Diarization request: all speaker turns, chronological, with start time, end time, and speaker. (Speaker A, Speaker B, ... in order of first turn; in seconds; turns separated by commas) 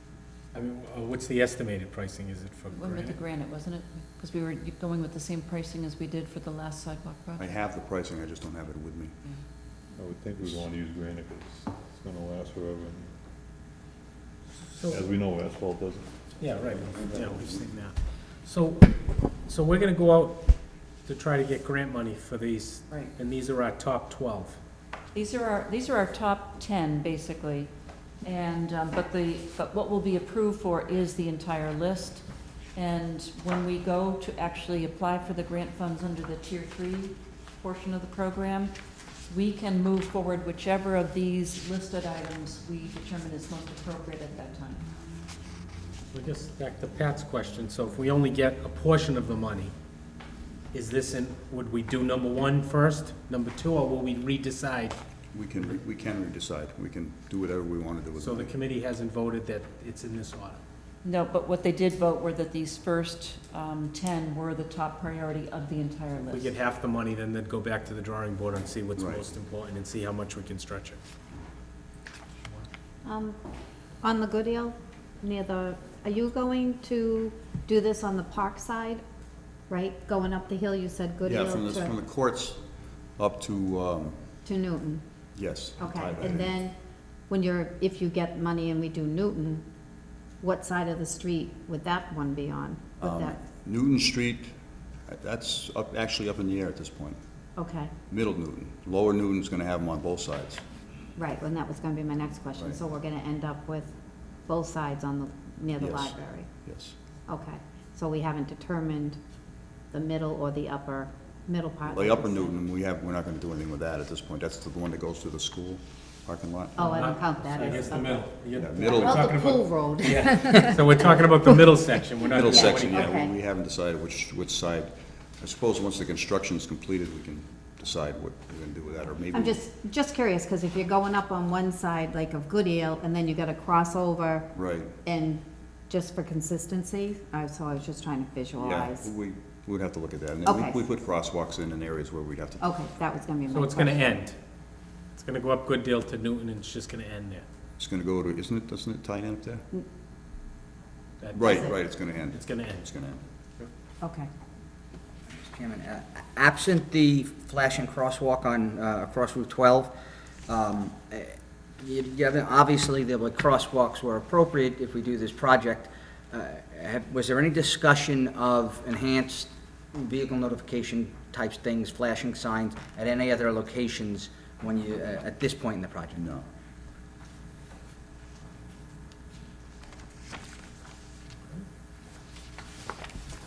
Speaker A: 0.5-3.2, Speaker B: 2.7-7.5, Speaker C: 7.4-9.2, Speaker D: 9.9-13.1, Speaker A: 14.8-15.1, Speaker D: 14.9-17.5, Speaker A: 16.4-20.5, Speaker A: 21.1-24.6, Speaker B: 22.9-23.1, Speaker B: 25.1-27.7, Speaker B: 28.2-32.2, Speaker B: 32.8-38.8, Speaker B: 39.3-44.9, Speaker A: 46.1-49.7, Speaker A: 50.7-55.0, Speaker C: 55.3-58.6, Speaker A: 58.2-60.6, Speaker B: 61.0-66.5, Speaker A: 66.3-71.0, Speaker C: 69.0-69.3, Speaker E: 73.0-73.4, Speaker E: 74.0-79.0, Speaker E: 79.7-81.9, Speaker C: 81.2-84.3, Speaker E: 84.5-85.0, Speaker C: 85.3-86.6, Speaker E: 85.8-86.8, Speaker E: 87.3-89.6, Speaker E: 90.4-93.4, Speaker C: 93.0-94.5, Speaker C: 95.1-97.2, Speaker E: 97.6-97.9, Speaker C: 98.1-100.6, Speaker E: 101.2-103.9, Speaker E: 104.5-106.5, Speaker C: 105.8-107.0, Speaker E: 107.3-109.2, Speaker E: 109.9-112.5, Speaker C: 111.9-117.0, Speaker E: 116.8-118.3, Speaker A: 116.8-123.1, Speaker C: 118.6-119.0, Speaker E: 118.8-121.0, Speaker C: 122.2-129.6, Speaker E: 122.4-123.3, Speaker E: 129.3-134.5, Speaker C: 134.5-134.9, Speaker E: 135.1-139.1, Speaker C: 138.6-142.7, Speaker E: 140.4-140.9, Speaker E: 142.6-144.1, Speaker A: 143.5-144.4, Speaker A: 145.2-147.4, Speaker C: 147.8-149.6, Speaker A: 151.2-152.9, Speaker C: 151.3-153.2, Speaker E: 154.0-154.3, Speaker F: 155.3-159.9, Speaker F: 160.5-176.2, Speaker C: 176.2-176.5